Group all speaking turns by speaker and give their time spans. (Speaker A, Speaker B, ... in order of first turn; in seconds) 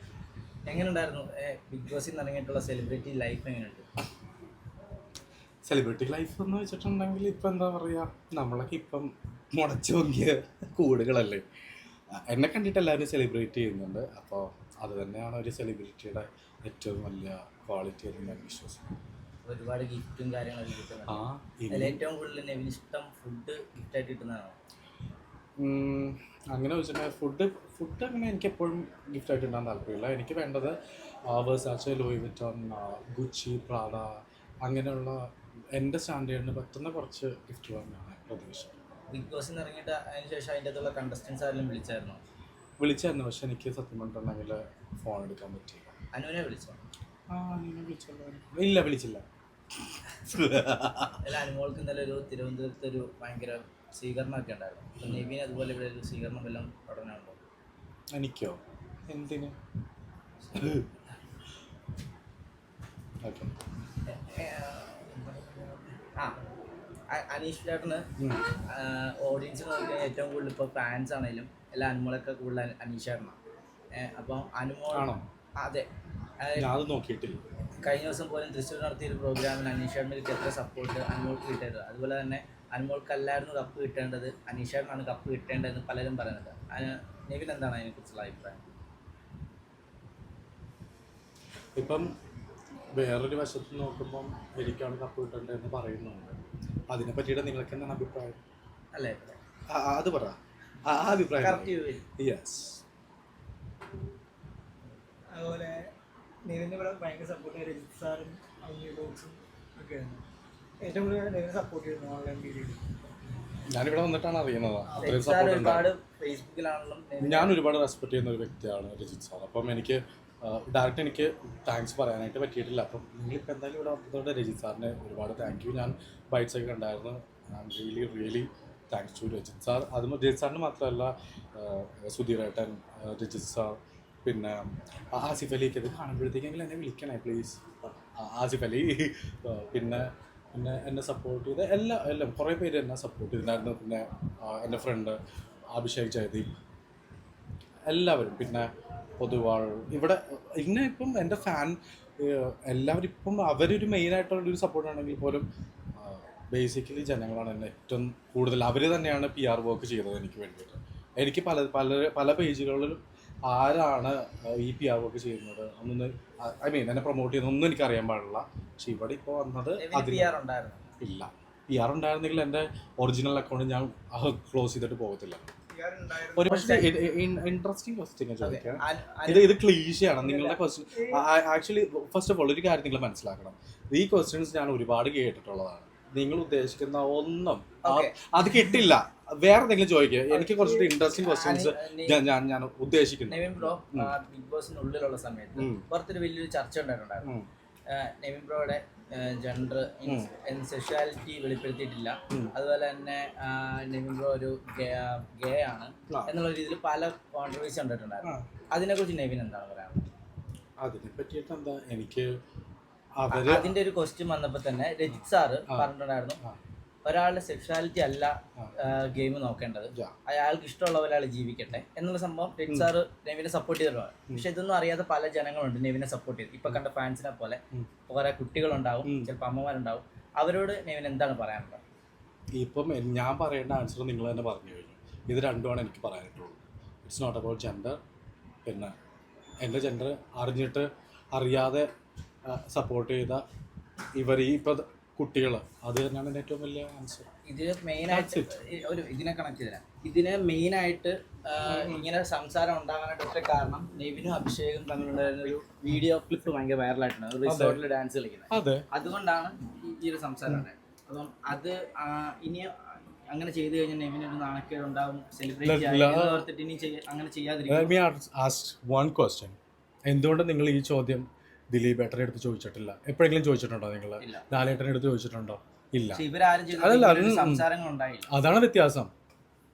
Speaker A: 0.7-3.8, 19.4-24.6, 39.1-42.2, 46.1-46.8, 51.2-57.4, 64.0-65.5, 66.1-66.3, 67.1-68.1, 68.6-73.3, 73.9-75.8, 76.4-76.7, 77.8-88.6, 98.9-99.4, 101.4-102.0, 115.0-117.6, 169.8-170.8, 176.4-176.9, 178.4-179.6, 180.2-180.6, 187.8-188.4, 190.3-192.2, 193.3-197.3, 197.9-210.1, 213.3-216.4, 217.0-231.8, 247.4-267.9, 274.2-274.4, 276.1-278.3
Speaker B: 5.7-11.4, 12.2-18.9, 21.1-22.0, 25.6-30.8, 31.3-34.1, 34.6-38.7, 42.8-45.9, 47.3-49.2, 49.9-51.2, 58.1-59.5, 60.5-60.9, 63.2-63.5, 74.9-75.2, 76.5-77.4, 91.8-92.1, 92.9-98.4, 99.7-102.8, 113.7-115.9, 117.2-145.2, 145.7-146.5, 147.9-148.7, 149.2-170.3, 171.0-175.5, 176.3-194.1, 195.6-195.8, 206.1-206.4, 208.2-208.5, 210.8-212.3, 213.2-213.7, 215.7-216.6, 229.0-229.3, 232.5-238.0, 238.6-238.9, 239.6-241.9, 242.4-243.4, 244.2-247.3, 248.1-248.5, 251.6-252.1, 257.4-257.8, 258.5-258.9, 265.6-266.4, 267.7-277.6, 278.3-279.1
Speaker C: 105.3-105.9, 106.4-110.2, 110.8-112.9, 114.9-115.1, 175.7-176.5